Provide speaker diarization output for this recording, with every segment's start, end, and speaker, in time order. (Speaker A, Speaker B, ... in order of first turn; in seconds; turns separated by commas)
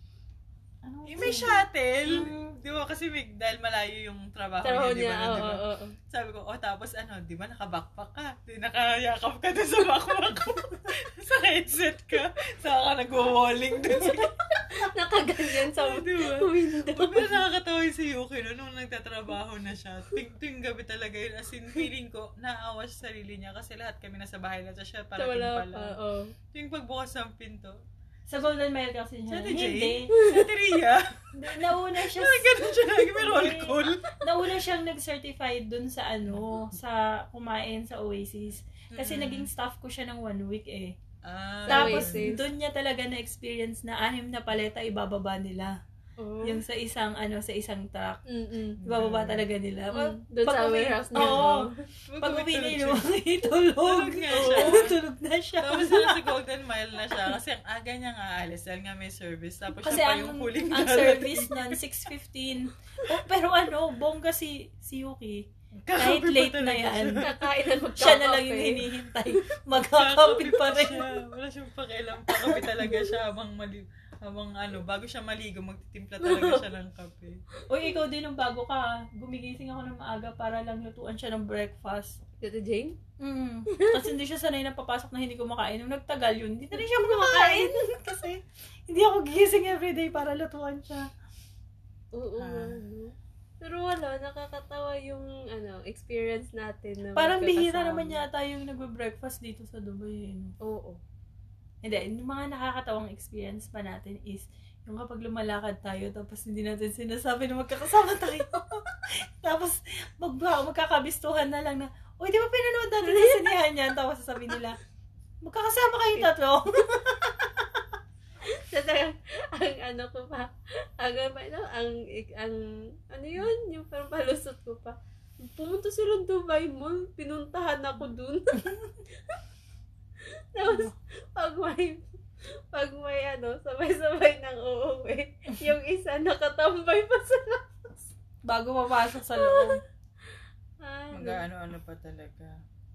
Speaker A: 0.8-2.5, Speaker B: 1.1-14.9, Speaker C: 4.6-6.0, Speaker C: 13.9-17.4, Speaker B: 15.4-26.0, Speaker C: 25.2-26.3, Speaker B: 26.5-27.8, Speaker A: 28.3-30.1, Speaker B: 29.3-34.1, Speaker C: 30.1-30.5, Speaker A: 31.4-40.9, Speaker B: 36.3-36.6, Speaker B: 38.9-39.5, Speaker B: 41.2-42.4, Speaker C: 41.7-42.4, Speaker A: 41.7-45.8, Speaker C: 46.2-46.6, Speaker A: 46.4-48.2, Speaker C: 48.3-48.8, Speaker B: 48.8-49.4, Speaker A: 48.9-51.7, Speaker C: 49.9-51.8, Speaker B: 51.1-53.0, Speaker A: 52.2-56.3, Speaker B: 53.8-55.0, Speaker C: 54.3-54.8, Speaker B: 55.6-61.8, Speaker A: 59.8-67.3, Speaker B: 63.0-63.3, Speaker B: 65.8-67.3, Speaker C: 67.2-68.8, Speaker A: 68.0-71.2, Speaker B: 69.7-77.4, Speaker C: 72.4-73.0, Speaker C: 76.2-76.6, Speaker C: 77.6-78.0, Speaker A: 77.7-82.2, Speaker C: 82.4-83.0, Speaker A: 83.2-91.1, Speaker C: 83.7-84.1, Speaker C: 86.7-88.0, Speaker C: 92.1-98.2, Speaker B: 92.4-92.8, Speaker A: 97.2-100.5, Speaker C: 100.6-101.0, Speaker A: 101.8-114.8, Speaker C: 113.0-113.5, Speaker A: 115.4-117.5, Speaker C: 118.5-128.7, Speaker C: 130.5-132.1, Speaker A: 130.6-130.9, Speaker C: 132.7-138.1, Speaker A: 138.4-139.8, Speaker C: 139.3-139.8, Speaker C: 140.8-141.4, Speaker B: 141.1-142.6